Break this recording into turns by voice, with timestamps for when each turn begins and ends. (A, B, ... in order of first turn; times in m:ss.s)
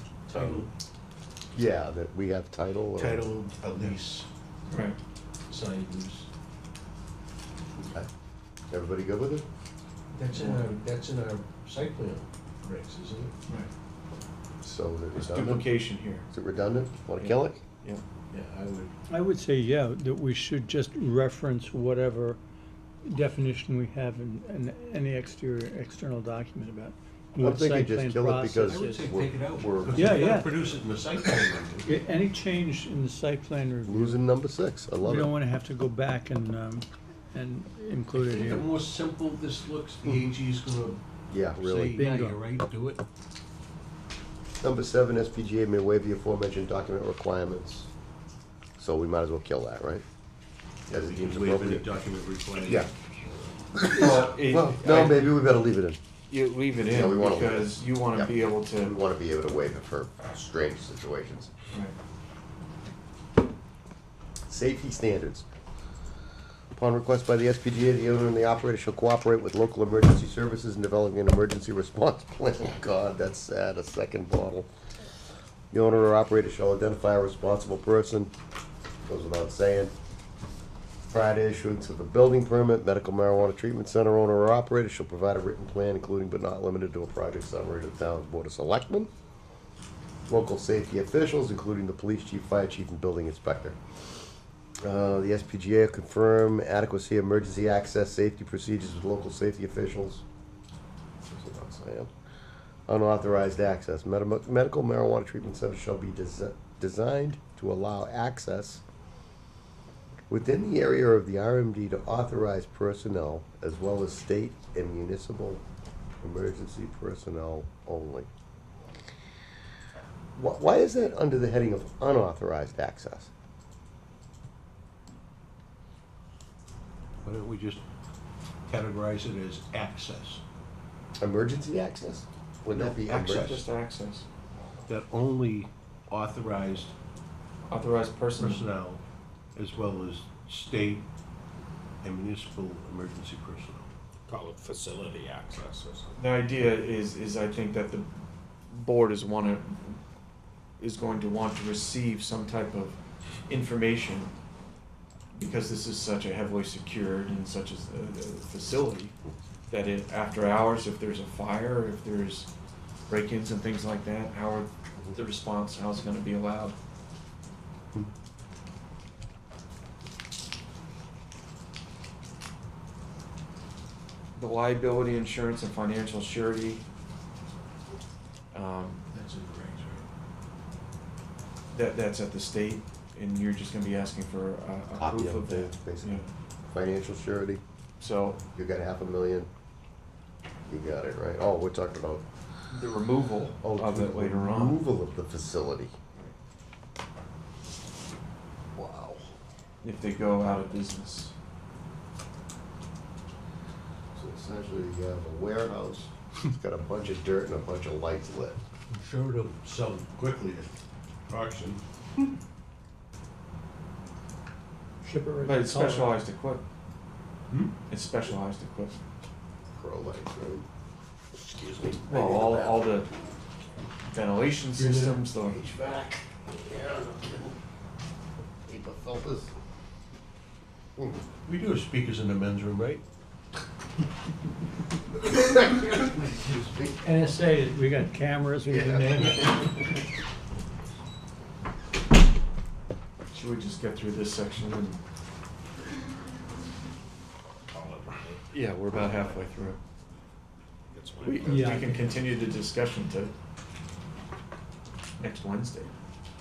0:00.3-0:00.7 A
0:00.3-0:00.7 B
0:01.6-0:03.3 A
0:03.0-0:04.3 B
0:04.7-0:05.0 C
0:05.5-0:06.3 B
0:07.8-0:08.1 A
0:08.7-0:09.5 A
0:10.2-0:13.3 B
0:10.3-0:10.8 C
0:14.6-0:15.8 A
0:15.1-0:16.3 C
0:16.3-0:17.6 A
0:17.2-0:18.0 C
0:18.3-0:18.9 B
0:19.1-0:22.4 D
0:23.1-0:29.0 D
0:27.4-0:30.6 A
0:28.7-0:32.0 B
0:29.9-0:30.5 D
0:31.8-0:34.2 D
0:33.8-0:35.3 A
0:35.0-0:38.7 D
0:38.2-0:41.0 B
0:41.3-0:42.0 A
0:41.6-0:43.0 B
0:41.9-0:42.4 D
0:44.6-0:47.9 A
0:48.8-0:50.0 A
0:50.9-0:51.9 A
0:50.9-0:53.5 B
0:52.6-0:52.9 A
0:53.7-0:56.0 A
0:53.9-0:55.3 C
0:56.3-0:59.0 C
0:56.9-1:01.5 A
1:04.5-1:05.5 A
1:06.8-1:14.7 A
1:15.7-1:18.3 A
1:19.1-1:19.9 A
1:21.1-1:29.1 A
1:30.3-1:33.8 A
1:34.8-1:40.2 A
1:41.2-1:42.1 A
1:42.9-1:48.8 A
1:50.3-1:55.6 A
1:56.2-1:58.3 A
2:00.4-2:03.3 A
2:07.2-2:07.8 B
2:08.7-2:10.4 B
2:11.2-2:13.6 A
2:12.7-2:13.6 B
2:12.8-2:14.3 C
2:14.9-2:16.9 B
2:17.7-2:18.6 C
2:18.4-2:19.0 B
2:19.6-2:21.1 B
2:22.0-2:23.9 B
2:24.3-2:26.2 E
2:26.2-2:28.1 C
2:28.7-2:30.0 C
2:30.8-2:34.3 C
2:35.3-2:39.2 C
2:39.7-2:42.5 C
2:43.1-2:46.8 C
2:54.4-2:56.8 C
2:58.5-2:59.0 C
2:59.1-3:00.0 B
3:01.7-3:06.3 C
3:05.0-3:07.6 A
3:08.0-3:08.4 C
3:08.6-3:09.5 A
3:10.7-3:12.2 A
3:12.7-3:14.8 C
3:13.6-3:16.0 A
3:18.8-3:19.2 A
3:19.8-3:21.3 C
3:24.2-3:28.6 A
3:28.9-3:31.8 B
3:35.0-3:36.2 D
3:35.4-3:36.6 C
3:37.9-3:39.0 C
3:39.7-3:40.7 A
3:41.5-3:42.9 A
3:42.1-3:43.1 C
3:44.1-3:45.6 C
3:44.8-3:45.2 B
3:45.5-3:47.5 A
3:48.7-3:49.5 A
3:51.4-3:53.0 B
3:56.0-3:56.6 B
3:57.0-3:59.6 D
3:58.7-3:59.5 A
4:03.3-4:05.0 C
4:07.7-4:09.4 E
4:08.5-4:09.8 C
4:10.9-4:12.3 E
4:11.2-4:13.4 C
4:11.4-4:12.2 D
4:15.2-4:15.9 C